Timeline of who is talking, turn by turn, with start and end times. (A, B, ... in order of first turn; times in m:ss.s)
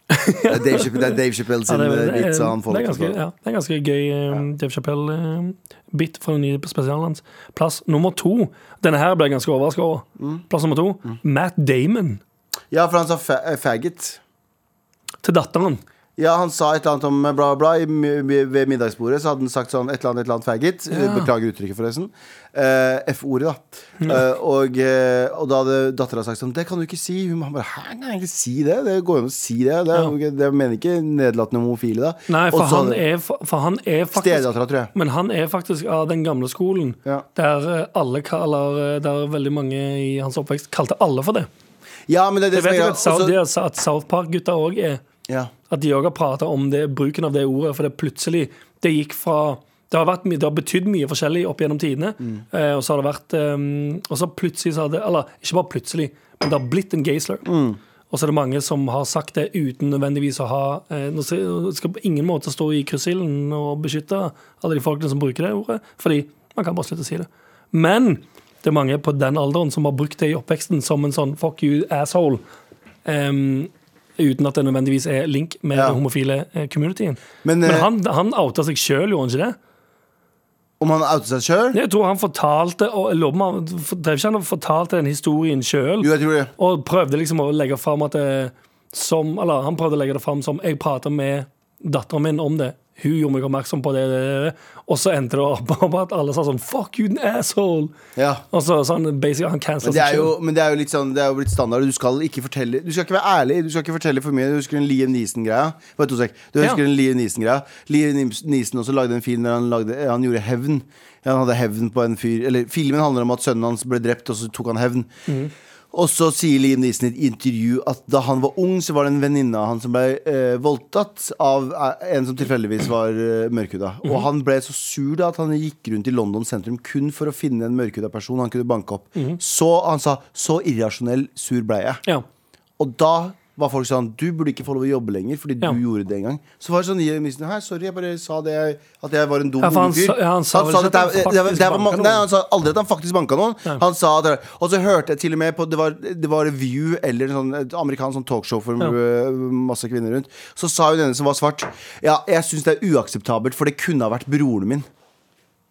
0:00.1-0:01.2 A
0:00.4-0:03.2 B
0:01.7-0:12.2 A
0:10.2-0:10.4 B
0:12.7-0:14.2 B
0:15.2-0:15.8 A
0:16.2-0:33.0 B
0:20.9-0:21.3 A
0:32.3-0:41.5 A
0:34.1-0:34.9 B
0:42.1-0:43.4 B
0:42.5-0:45.0 A
0:45.7-0:57.5 A
0:57.4-0:57.8 B
0:58.1-1:12.4 A
1:13.0-1:19.6 A
1:15.7-1:16.0 B
1:17.4-1:17.9 B
1:20.8-1:21.8 B
1:21.7-1:37.9 A
1:26.0-1:26.5 B
1:38.2-1:38.4 B
1:38.5-1:40.4 A
1:39.8-1:55.1 B
1:55.9-2:12.0 B
2:12.8-2:34.9 B
2:19.6-2:22.2 A